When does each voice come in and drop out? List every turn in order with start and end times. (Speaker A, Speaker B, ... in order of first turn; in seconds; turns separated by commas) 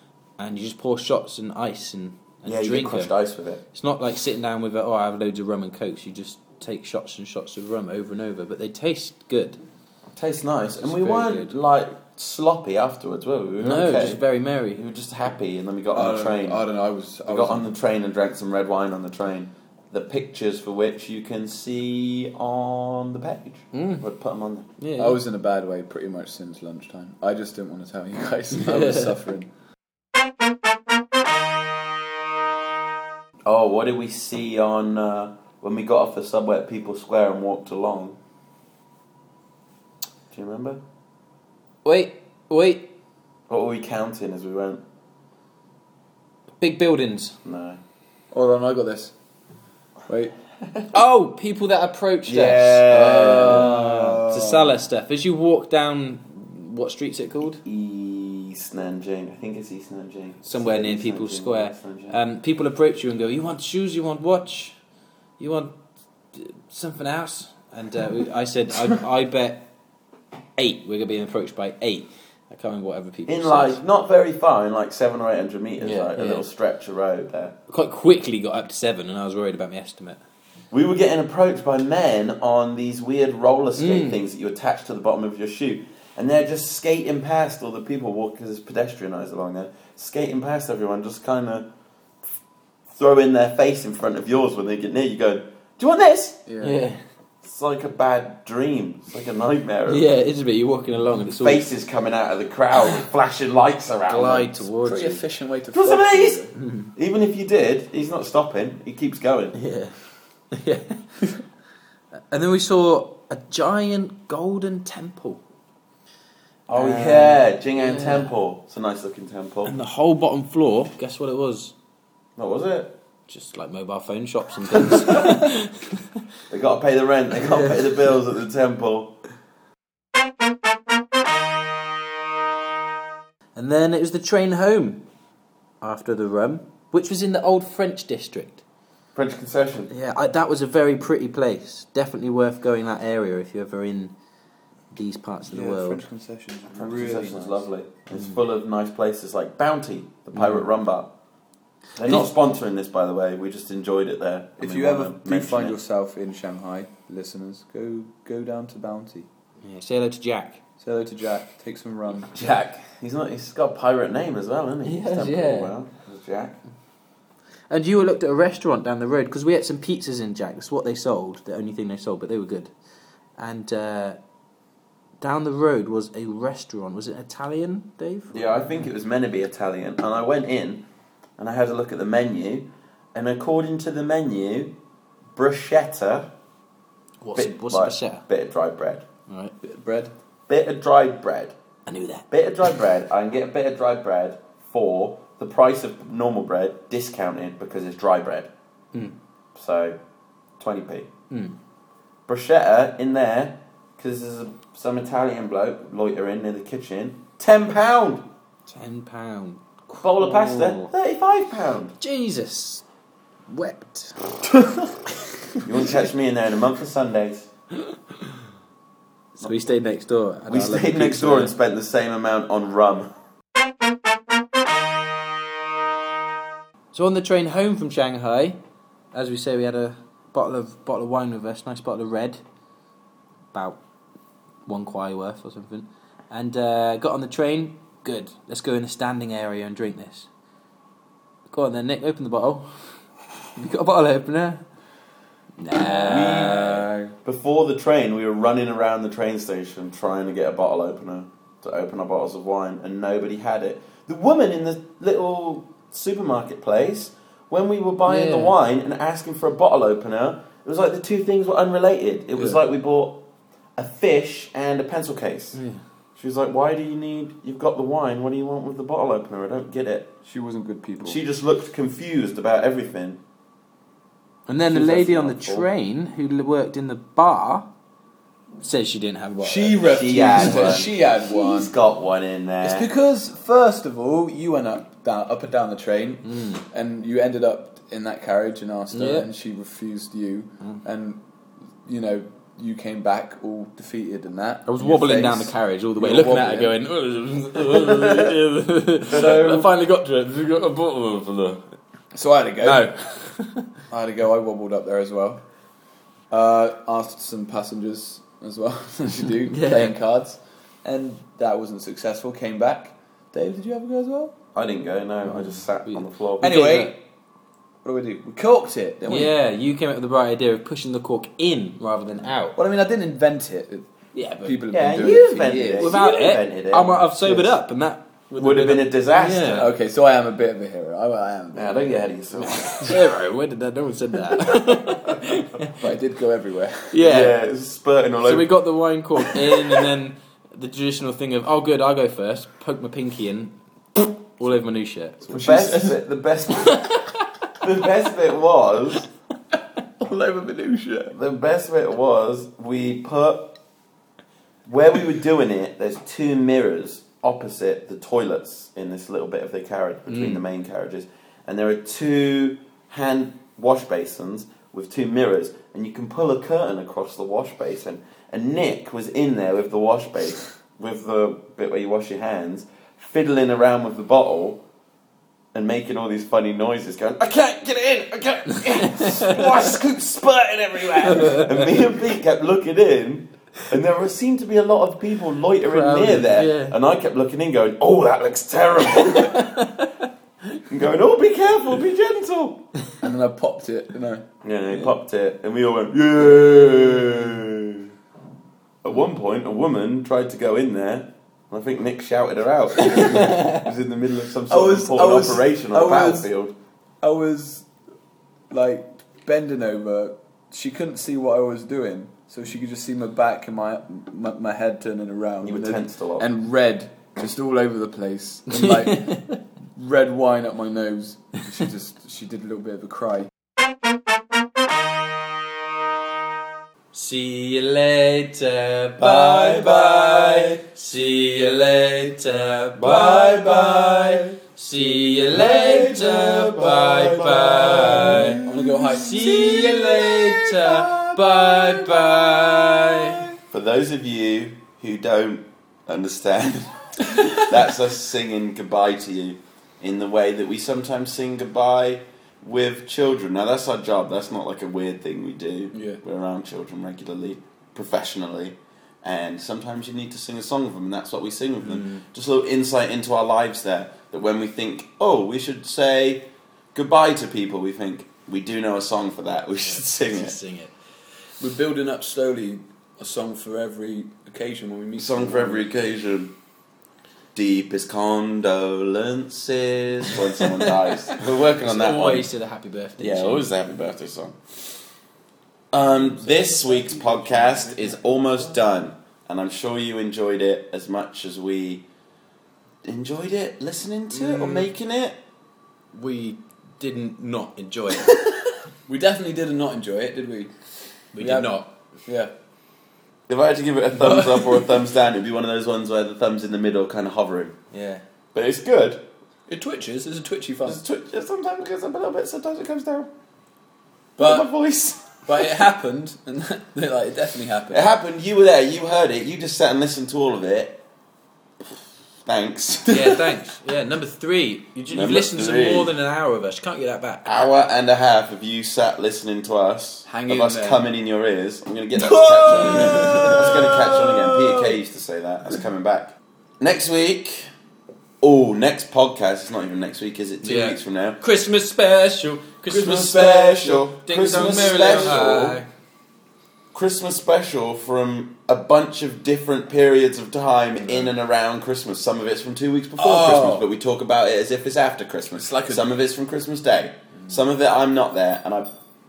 Speaker A: 0.4-3.1, Speaker B: 2.5-3.6, Speaker A: 3.7-9.6, Speaker B: 10.2-14.2, Speaker A: 10.8-11.5, Speaker A: 13.6-14.8, Speaker B: 14.7-16.6, Speaker C: 15.9-17.7, Speaker B: 17.2-24.7, Speaker A: 23.7-24.0, Speaker A: 24.8-25.2, Speaker C: 25.0-29.5, Speaker A: 28.5-29.1, Speaker B: 33.4-38.2, Speaker B: 40.3-40.8, Speaker A: 41.8-42.9, Speaker B: 43.5-44.8, Speaker A: 46.6-47.3, Speaker B: 47.4-47.8, Speaker C: 48.3-49.1, Speaker C: 50.1-50.3, Speaker A: 50.9-57.6, Speaker B: 52.2-54.6, Speaker C: 53.1-54.3, Speaker B: 57.6-62.2, Speaker A: 60.4-64.8, Speaker A: 65.4-65.8, Speaker A: 66.3-69.7, Speaker A: 70.6-73.8, Speaker B: 73.3-77.5, Speaker A: 75.8-76.4, Speaker A: 77.7-80.2, Speaker B: 80.7-91.7, Speaker A: 83.8-84.2, Speaker B: 92.9-96.4, Speaker C: 96.5-96.8, Speaker A: 96.6-97.0, Speaker B: 97.4-100.1, Speaker A: 99.9-101.7, Speaker B: 101.4-104.7, Speaker A: 104.1-105.2, Speaker C: 104.8-106.5, Speaker B: 105.7-109.6, Speaker A: 106.5-106.9, Speaker A: 109.5-110.0, Speaker A: 110.5-111.2, Speaker A: 112.3-115.4, Speaker A: 116.7-118.3, Speaker B: 116.7-119.7, Speaker A: 119.7-121.7, Speaker B: 122.4-122.9, Speaker A: 123.3-126.0, Speaker B: 124.9-125.3, Speaker B: 126.5-129.2, Speaker A: 127.4-127.8, Speaker A: 133.5-135.0, Speaker A: 135.8-138.6, Speaker B: 139.1-139.9, Speaker A: 139.9-144.1, Speaker A: 144.9-146.0, Speaker C: 145.5-147.7, Speaker B: 146.7-151.1, Speaker A: 150.3-150.6, Speaker B: 152.0-155.8, Speaker A: 152.0-152.3, Speaker C: 154.6-159.3, Speaker A: 159.6-160.6, Speaker C: 160.8-162.3, Speaker B: 162.3-166.6, Speaker A: 164.8-165.7, Speaker A: 167.7-172.7, Speaker A: 173.4-174.2, Speaker A: 175.2-178.4, Speaker B: 178.3-180.8, Speaker B: 181.4-184.8, Speaker B: 185.3-186.3, Speaker A: 187.2-188.2, Speaker B: 187.3-189.1, Speaker A: 189.3-189.5, Speaker C: 189.6-190.1, Speaker B: 190.5-191.5, Speaker A: 191.9-192.7, Speaker B: 192.3-198.5, Speaker B: 199.5-200.0, Speaker B: 200.6-201.1, Speaker A: 201.3-201.6, Speaker B: 202.3-208.2, Speaker A: 208.7-210.9, Speaker B: 210.0-211.9, Speaker A: 212.0-212.8, Speaker A: 213.5-214.5, Speaker B: 215.6-217.5, Speaker A: 219.4-221.5, Speaker B: 220.5-223.1, Speaker A: 226.9-228.6, Speaker A: 229.1-232.4, Speaker A: 233.5-233.8, Speaker A: 234.7-240.3, Speaker A: 241.5-244.6, Speaker A: 245.6-246.9, Speaker B: 245.8-263.2, Speaker C: 246.1-247.1, Speaker A: 258.1-258.5, Speaker B: 263.8-265.6, Speaker A: 265.5-265.8, Speaker B: 266.1-270.1, Speaker C: 270.2-271.2, Speaker B: 271.0-273.2, Speaker A: 274.5-277.7, Speaker B: 274.7-275.7, Speaker A: 278.6-280.9, Speaker C: 279.4-281.7, Speaker B: 279.8-282.9, Speaker C: 282.6-291.2, Speaker A: 286.3-286.6, Speaker A: 288.9-289.3, Speaker C: 291.8-296.7, Speaker A: 294.7-301.6, Speaker B: 299.1-299.7, Speaker C: 302.1-302.9, Speaker A: 302.6-303.7, Speaker C: 303.9-305.4, Speaker C: 306.3-314.3, Speaker A: 309.5-309.9, Speaker B: 314.5-316.5, Speaker A: 315.3-316.9, Speaker C: 316.4-317.0, Speaker C: 317.8-319.3, Speaker A: 319.1-322.6, Speaker C: 322.5-326.0, Speaker A: 324.1-324.6, Speaker B: 324.7-327.4, Speaker A: 325.8-329.7, Speaker B: 328.4-329.7, Speaker C: 329.6-332.7, Speaker B: 331.5-332.9, Speaker A: 332.8-335.8, Speaker C: 335.8-337.0, Speaker A: 336.9-337.3, Speaker B: 337.0-338.5, Speaker A: 338.2-345.3, Speaker C: 345.2-346.0, Speaker B: 345.3-346.9, Speaker A: 346.6-347.3, Speaker B: 347.6-349.1, Speaker C: 350.0-351.1, Speaker B: 351.1-353.6, Speaker B: 354.6-374.6, Speaker A: 360.1-360.4, Speaker B: 375.5-389.6, Speaker A: 378.8-379.4, Speaker A: 381.1-381.5, Speaker A: 385.6-386.8, Speaker A: 389.0-390.0, Speaker B: 390.7-392.6, Speaker C: 393.0-394.2, Speaker B: 394.4-397.9, Speaker B: 398.8-406.5, Speaker A: 403.0-403.6, Speaker C: 404.5-406.3, Speaker C: 407.0-407.7, Speaker C: 408.5-423.3, Speaker B: 415.4-416.3, Speaker A: 418.6-419.3, Speaker A: 426.9-443.3, Speaker B: 429.0-430.6, Speaker B: 432.8-434.4, Speaker B: 435.3-442.5, Speaker C: 437.9-439.5, Speaker B: 443.4-470.4, Speaker C: 455.7-456.0, Speaker A: 461.6-462.0, Speaker A: 469.6-470.7, Speaker C: 471.4-475.7, Speaker B: 475.0-476.3, Speaker B: 477.3-482.3, Speaker A: 480.1-483.5, Speaker B: 483.0-484.8, Speaker B: 485.7-491.8, Speaker C: 486.2-488.5, Speaker B: 492.8-495.2, Speaker C: 494.1-494.7, Speaker A: 495.9-498.2, Speaker C: 498.9-500.5, Speaker A: 501.1-501.7, Speaker C: 501.1-502.3, Speaker B: 503.3-507.6, Speaker C: 504.1-504.4, Speaker A: 507.7-508.0, Speaker B: 508.3-509.0, Speaker C: 509.5-510.8, Speaker B: 510.6-513.1, Speaker C: 514.2-514.5, Speaker B: 514.2-515.5, Speaker C: 515.2-517.8, Speaker B: 517.7-520.8, Speaker B: 522.2-523.2, Speaker A: 522.9-527.4, Speaker B: 524.9-525.9, Speaker B: 527.2-537.5, Speaker C: 530.0-530.8, Speaker C: 531.9-534.8, Speaker A: 532.9-533.4, Speaker B: 538.2-541.2, Speaker A: 540.4-545.6, Speaker B: 542.7-545.6, Speaker C: 543.1-545.3, Speaker B: 546.7-558.7, Speaker C: 553.0-553.7, Speaker C: 555.4-555.8